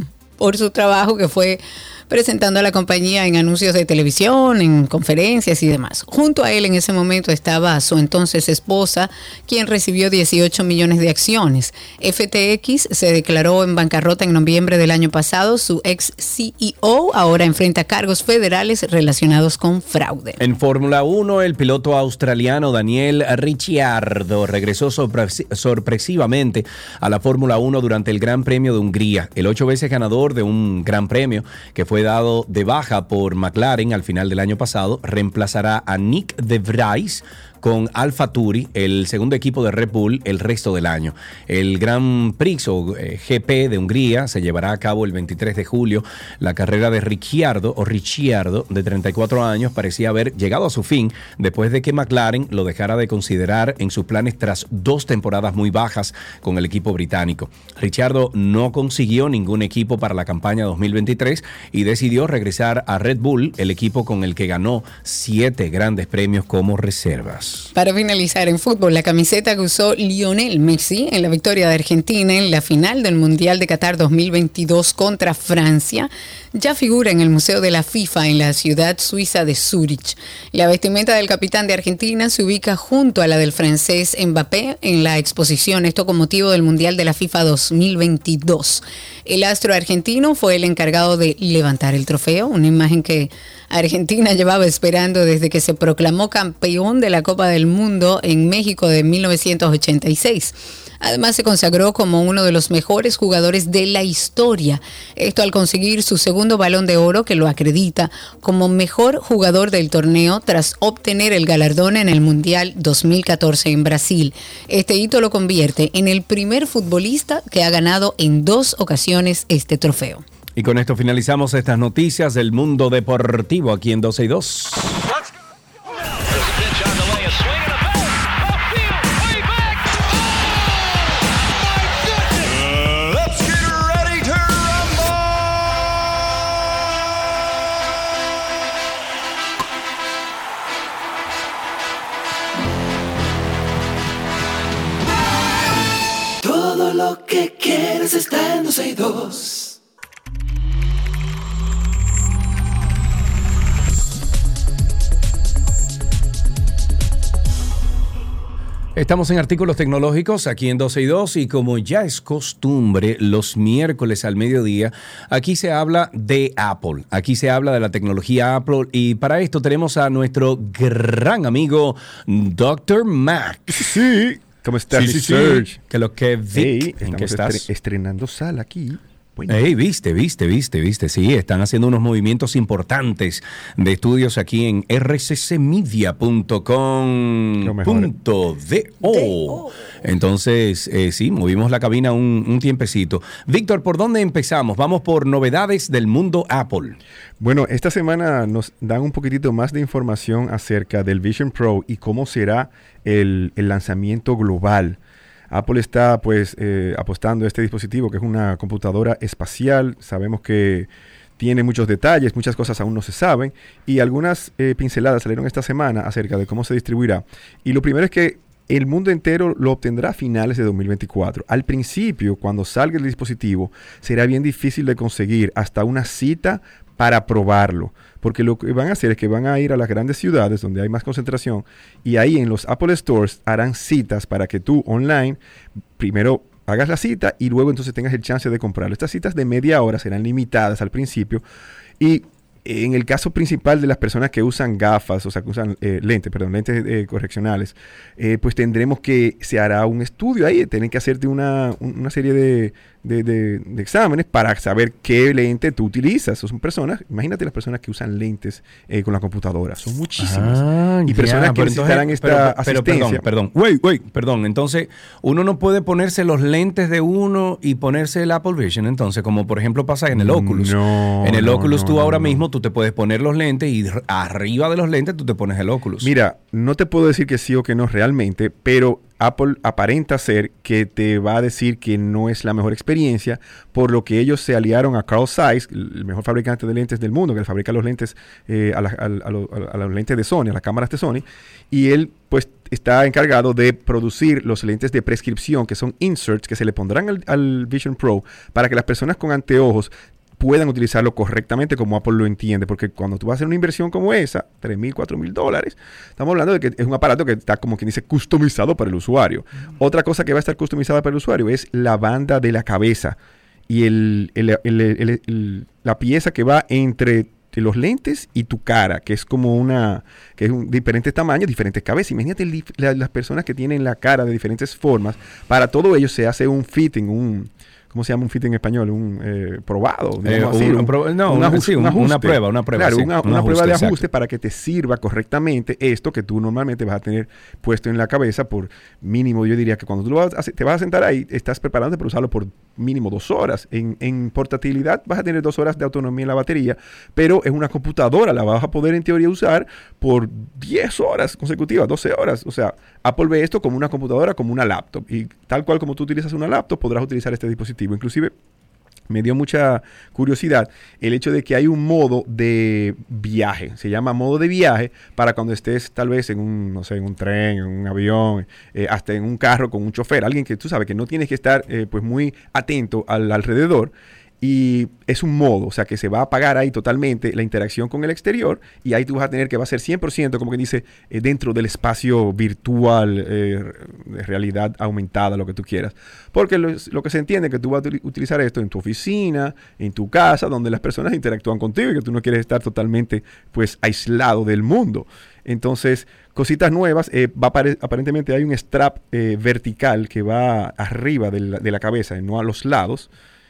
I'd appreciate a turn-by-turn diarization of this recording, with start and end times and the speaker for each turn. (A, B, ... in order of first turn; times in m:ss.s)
0:00.4-0:20.4 A
0:20.4-1:07.7 B
1:07.7-2:00.2 A
2:00.6-2:05.0 B
2:26.4-2:29.8 C
2:39.0-2:53.8 B
2:53.7-2:55.8 D
2:54.9-2:57.7 B
2:56.5-2:59.7 D
2:59.5-3:17.0 B
3:07.6-3:08.1 D
3:17.4-3:25.0 D
3:25.5-3:55.4 D
3:56.0-4:01.4 D
4:02.0-4:23.2 D
4:20.2-4:36.1 B
4:30.1-4:32.5 D
4:36.0-5:13.2 D
5:13.7-5:58.3 D
5:30.2-5:34.0 B
5:59.1-6:43.1 D